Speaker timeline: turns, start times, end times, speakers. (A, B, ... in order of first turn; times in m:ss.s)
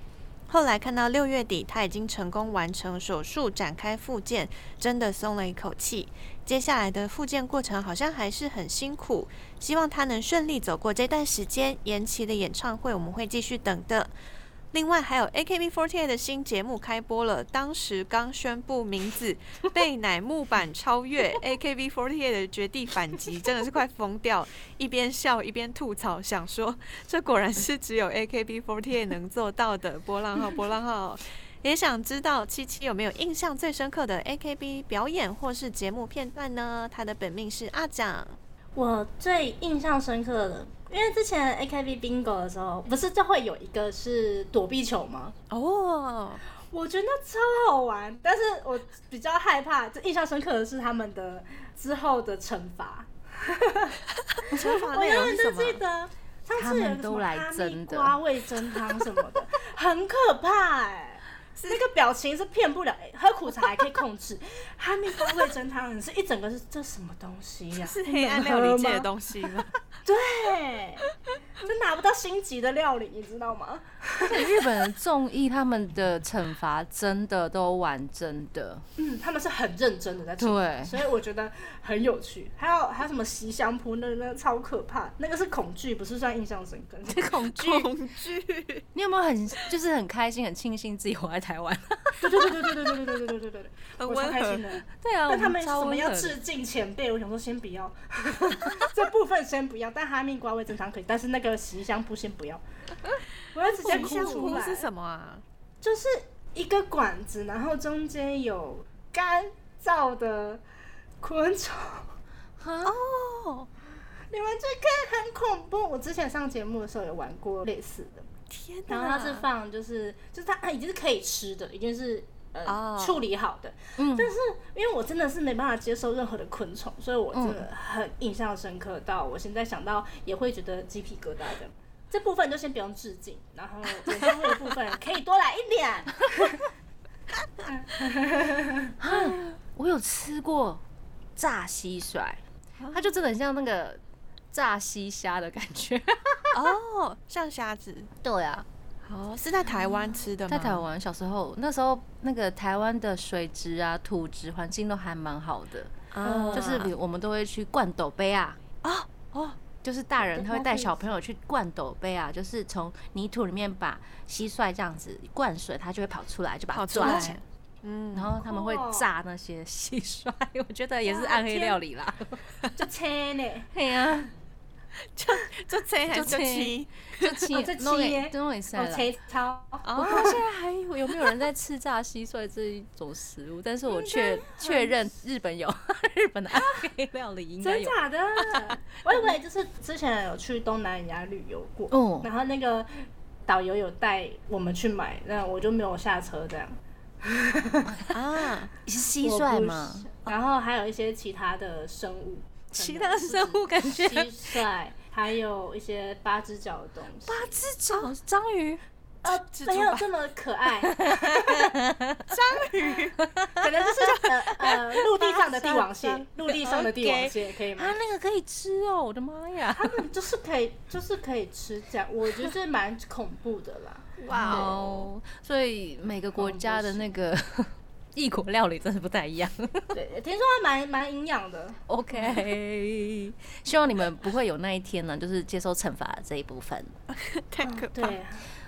0:00.5-0:14.1 A
0:14.7-0:38.4 A
0:38.8-0:45.4 B
0:45.5-0:46.4 A
0:46.7-0:54.0 B
0:54.3-0:55.8 A
0:54.5-1:09.1 B
0:56.6-0:58.2 C
1:01.6-1:01.8 A
1:07.8-1:09.7 A
1:10.0-1:14.6 B
1:14.2-1:18.8 C
1:19.0-1:27.3 B
1:20.4-1:21.0 C
1:27.1-1:27.9 C
1:27.6-1:28.8 A
1:29.0-1:32.5 C
1:32.2-1:42.6 B
1:34.0-1:34.6 A
1:34.9-1:36.4 C
1:43.5-1:44.9 B
1:43.7-1:45.4 A
1:43.8-1:44.5 C
1:45.8-1:50.6 B
1:51.2-1:52.1 B
1:52.6-1:53.0 C
1:52.8-1:53.7 A
1:54.3-1:58.3 B
1:58.5-1:59.5 A
1:58.9-2:16.6 B
2:02.6-2:03.2 A
2:04.0-2:04.3 C
2:07.3-2:07.6 C
2:17.7-2:19.3 B
2:19.0-2:20.8 C
2:21.4-2:22.4 C
2:22.8-2:23.1 A
2:22.9-2:24.0 C
2:24.5-2:26.5 C
2:26.5-2:28.1 A
2:28.2-2:28.6 C
2:29.0-2:30.8 A
2:30.5-2:38.6 C
2:36.1-2:36.9 A
2:36.2-2:36.8 B
2:38.8-2:39.6 A
2:39.8-2:47.4 C
2:40.2-2:41.1 B
2:46.7-2:48.4 A
2:47.0-2:47.4 B
2:48.1-2:52.4 C
2:48.5-2:49.1 B
2:51.0-2:51.8 B
2:52.8-2:53.7 B
2:53.7-2:54.3 C
2:55.2-2:57.4 A
2:56.1-2:59.1 C
2:57.5-3:00.4 B
2:59.8-3:00.4 A
3:00.0-3:08.0 C
3:03.9-3:05.0 B
3:07.6-3:12.9 B
3:11.9-3:12.3 C
3:13.5-3:18.0 B
3:18.1-3:18.7 A
3:18.8-3:20.1 C
3:19.2-3:27.6 B
3:22.7-3:24.6 C
3:27.3-3:28.8 C
3:29.2-3:31.7 B
3:29.2-3:30.1 A
3:30.8-3:32.3 C
3:32.3-3:33.2 A
3:33.2-3:33.6 C
3:33.6-3:38.0 B
3:34.1-3:36.2 A
3:36.6-3:40.0 C
3:39.8-3:44.7 B
3:44.2-3:45.1 A
3:44.3-3:50.0 C
3:46.4-3:47.1 B
3:49.9-3:51.8 B
3:51.9-3:56.9 C
3:57.1-3:58.2 A
3:57.6-3:58.5 B